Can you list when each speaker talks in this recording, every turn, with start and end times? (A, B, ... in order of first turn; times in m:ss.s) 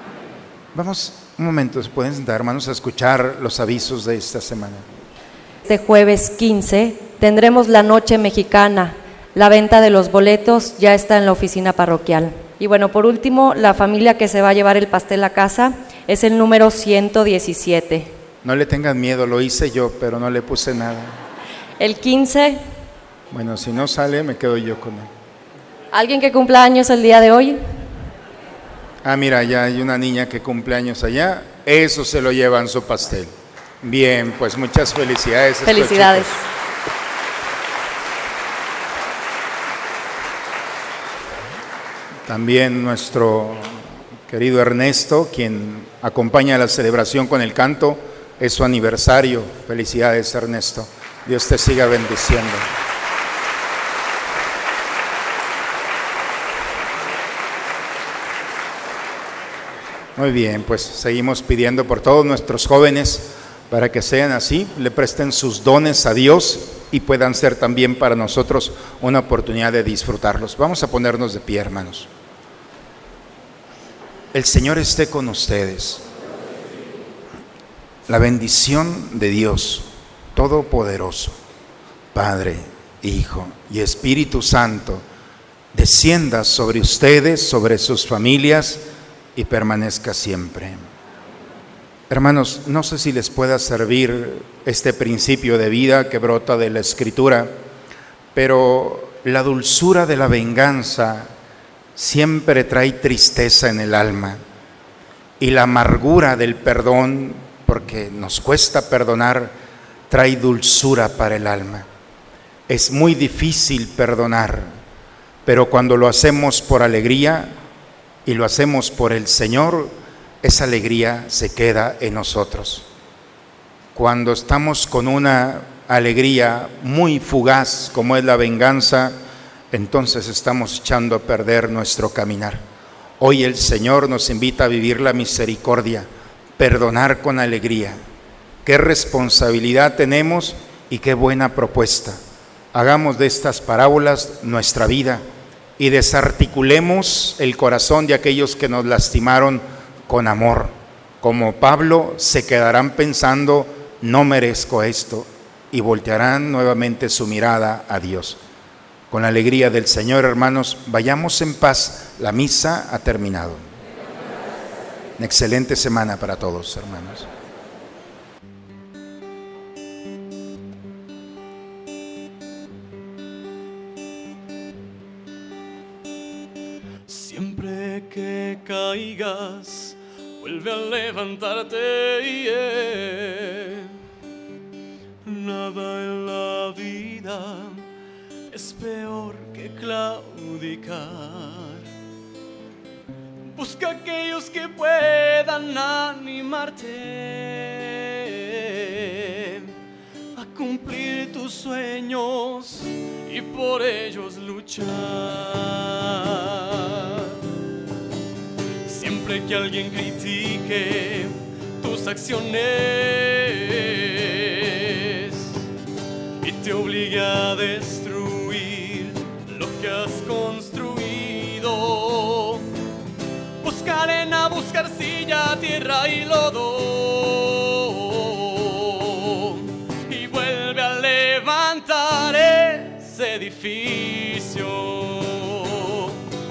0:00.7-0:04.9 A
0:05.7-0:18.1 B
0:18.4-0:21.2 A
0:21.8-0:22.6 B
0:23.3-0:25.1 A
0:25.9-0:27.6 B
0:29.0-0:36.4 A
0:35.6-0:36.4 B
0:42.3-0:52.7 A
1:00.2-1:12.1 A
1:14.3-1:16.0 A
1:18.1-1:21.4 A
1:22.1-1:25.0 A
1:25.7-1:28.8 A
1:29.4-1:30.9 A
1:32.1-1:37.5 A
1:38.3-1:41.3 A
1:42.0-1:44.4 A
1:45.4-1:49.6 A
1:50.1-1:51.9 A
1:52.7-1:54.8 A
1:55.4-1:57.6 A
1:58.2-2:02.9 A
2:04.0-2:09.2 A
2:09.7-2:12.6 A
2:13.2-2:18.0 A
2:18.6-2:22.2 A
2:22.7-2:25.2 A
2:25.8-2:38.4 A
2:39.1-2:43.6 A
2:45.2-2:47.3 A
2:57.1-3:04.0 C
3:05.2-3:07.9 C
3:08.5-3:11.9 C
3:13.4-3:19.7 C
3:20.4-3:27.3 C
3:28.9-3:35.6 C
3:36.4-3:42.7 C
3:43.6-3:56.2 C